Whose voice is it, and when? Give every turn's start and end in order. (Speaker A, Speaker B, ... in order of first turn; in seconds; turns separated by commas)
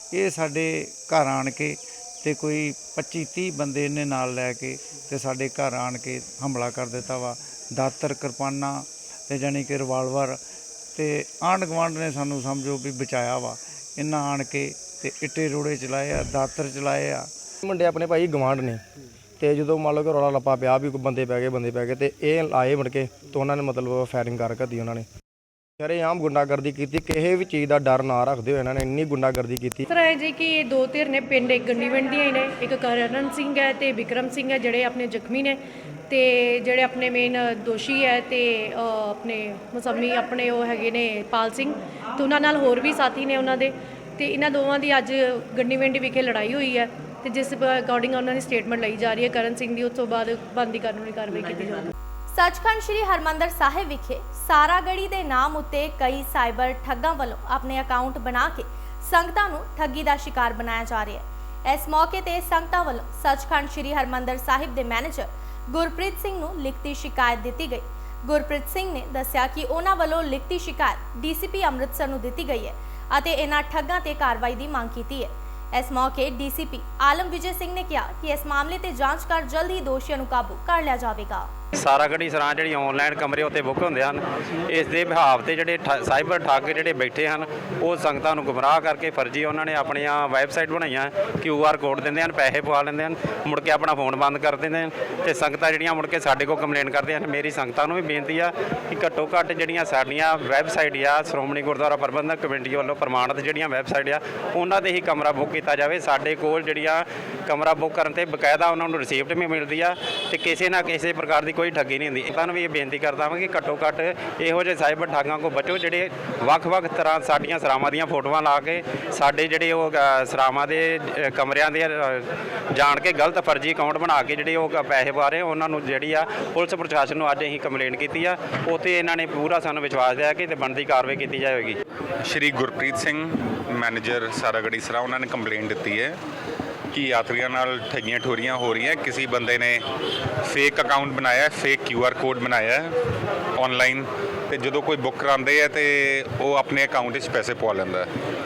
Speaker A: 0.1-10.4, Speaker A: 10.9-17.3, Speaker B: 17.6-18.8, Speaker B: 19.4-25.1, Speaker B: 25.8-29.8, Speaker C: 29.9-51.9, Speaker D: 52.3-81.5, Speaker E: 81.7-131.8, Speaker F: 132.2-136.2, Speaker F: 136.9-139.8, Speaker F: 140.4-142.9, Speaker F: 143.6-148.1